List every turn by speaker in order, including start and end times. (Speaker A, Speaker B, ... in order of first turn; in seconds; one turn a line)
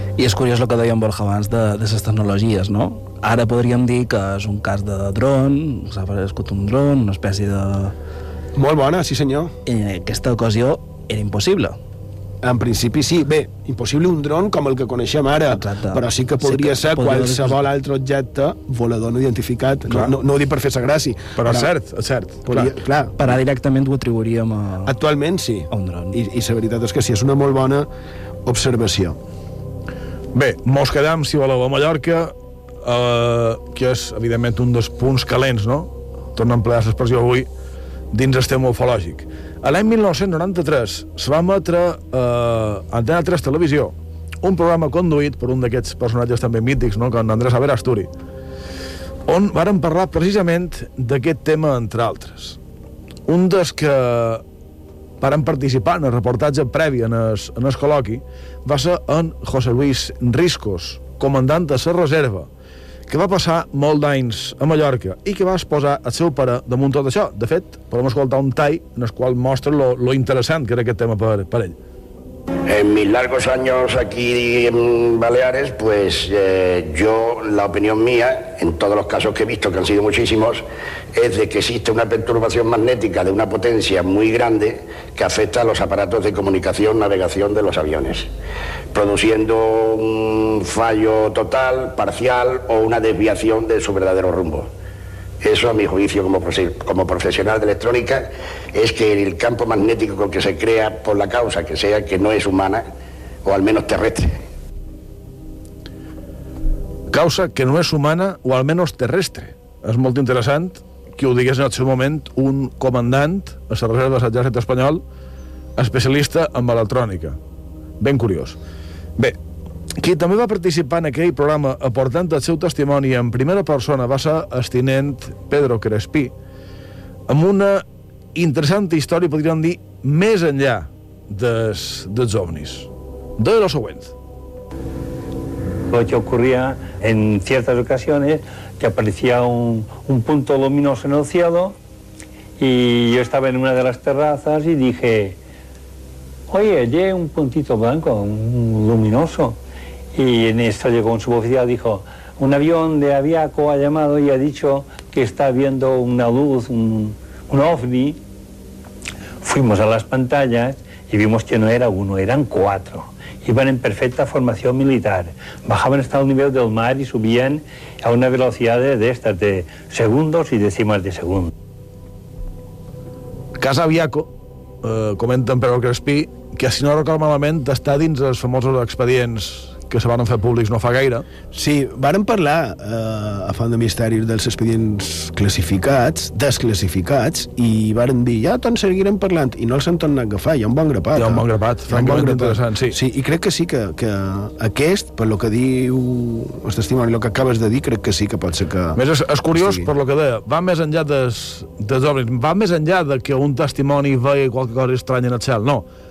Speaker A: 0.2-8.0
Speaker B: 8.6-9.6
Speaker A: 9.7-11.8
Speaker B: 12.4-21.7
Speaker A: 15.5-17.6
Speaker C: 21.4-22.7
Speaker B: 22.5-23.3
Speaker A: 23.2-24.9
Speaker B: 24.9-27.9
Speaker A: 25.7-26.2
Speaker B: 28.4-29.2
Speaker C: 30.3-37.5
Speaker C: 38.1-48.1
Speaker C: 49.3-52.6
Speaker C: 53.3-54.4
Speaker C: 55.2-62.5
Speaker C: 63.1-71.8
Speaker D: 72.7-88.3
Speaker D: 88.9-94.7
Speaker D: 95.4-102.8
Speaker D: 103.5-104.4
Speaker C: 107.1-115.0
Speaker C: 115.8-117.4
Speaker C: 118.0-118.6
Speaker C: 120.0-126.3
Speaker C: 127.3-127.8
Speaker C: 128.3-134.1
Speaker E: 135.9-141.8
Speaker E: 142.6-145.4
Speaker E: 146.5-149.6
Speaker E: 150.2-158.2
Speaker E: 159.4-171.5
Speaker C: 173.6-174.3
Speaker C: 174.8-181.3
Speaker B: 181.5-199.0
Speaker C: 191.1-193.0
Speaker C: 198.9-205.8
Speaker B: 199.5-199.9